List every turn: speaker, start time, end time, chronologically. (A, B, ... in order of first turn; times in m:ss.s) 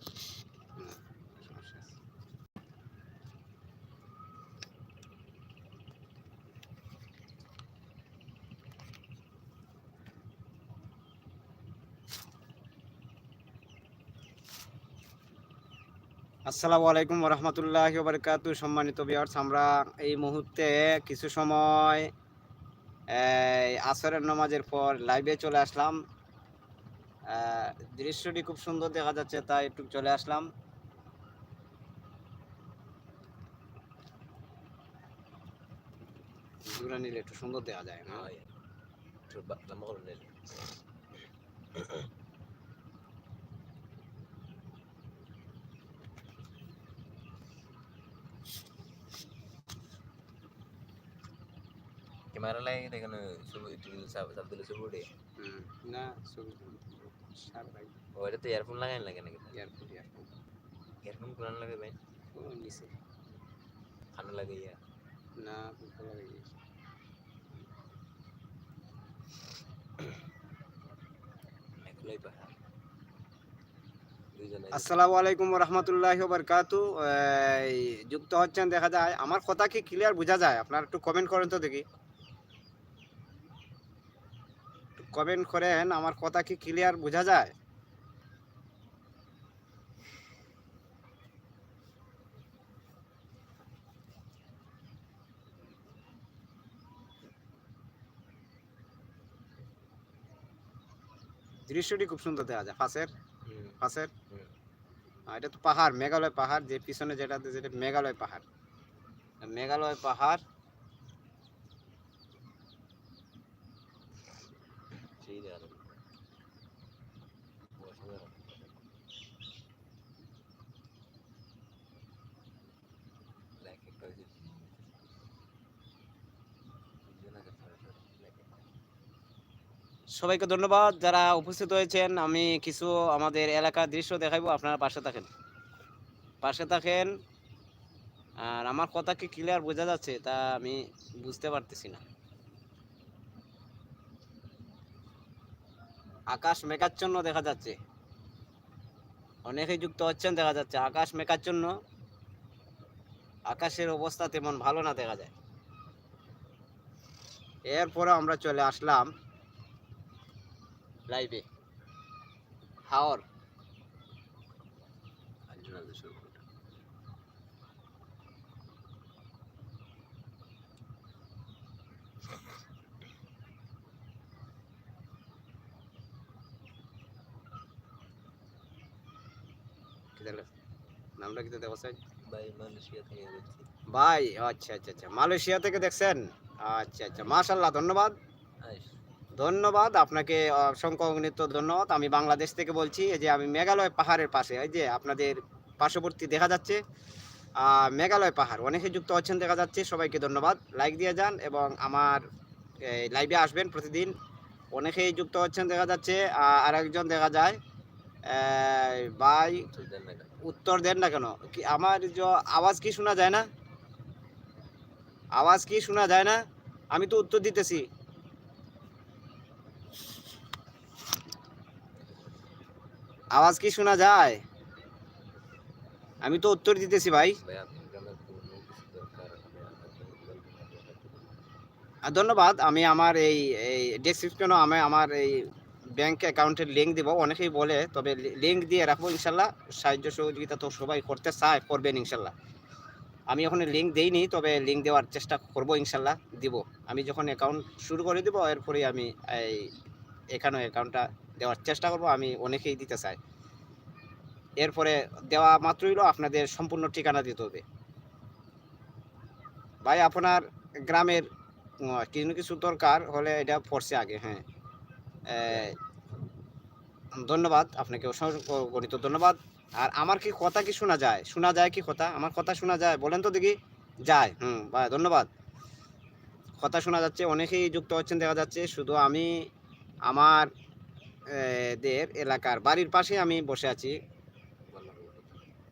0:00.8-0:01.9 A
0:16.4-0:22.1 A
0:23.1-0:26.0 A
0:27.3-0:30.5 A
0:36.6-0:38.3 A
0:38.1-0:38.5 B
0:39.3-0:40.6 B
0:52.3-0:55.1 B
0:55.4-0:57.9 A
0:58.2-0:59.6 B
0:59.5-1:00.3 A
1:01.0-1:02.0 B
1:02.3-1:02.9 A
1:04.1-1:04.8 B
1:05.4-1:06.6 A
1:11.8-1:12.6 B
1:14.3-1:14.9 B
1:14.7-1:21.8 A
1:25.0-1:27.5 A
1:41.7-1:43.1 A
1:43.4-1:43.8 B
1:43.8-1:44.1 A
1:45.3-1:48.4 A
1:49.4-1:50.4 A
1:55.2-1:56.0 B
1:57.8-1:58.8 B
2:03.6-2:04.8 B
2:07.0-2:08.6 B
2:10.2-2:15.3 A
2:16.4-2:17.1 A
2:18.4-2:22.0 A
2:26.3-2:27.8 A
2:29.5-2:31.7 A
2:33.5-2:35.3 A
2:37.7-2:39.1 A
2:41.1-2:41.4 A
2:42.9-2:43.2 A
2:45.5-2:46.4 B
3:00.2-3:00.5 A
3:01.2-3:02.0 A
3:02.2-3:03.7 B
3:03.9-3:08.1 A
3:08.6-3:09.0 B
3:09.3-3:16.8 A
3:17.6-3:22.2 A
3:22.8-3:24.1 A
3:24.7-3:27.6 A
3:28.2-3:29.7 A
3:29.6-3:30.3 B
3:30.4-3:33.5 A
3:35.3-3:36.4 A
3:36.9-3:37.9 A
3:43.3-3:44.4 A
3:46.2-3:47.4 A
3:47.3-3:51.3 B
3:52.0-4:02.3 A
4:03.3-4:09.7 A
4:10.3-4:13.2 A
4:14.6-4:17.6 A
4:19.8-4:21.2 A
4:21.8-4:24.4 A
4:25.3-4:25.8 A
4:25.4-4:25.8 B
4:27.2-4:35.3 A
4:36.6-4:39.3 A
4:40.1-4:40.5 A
4:41.3-4:43.9 A
4:44.7-4:45.5 B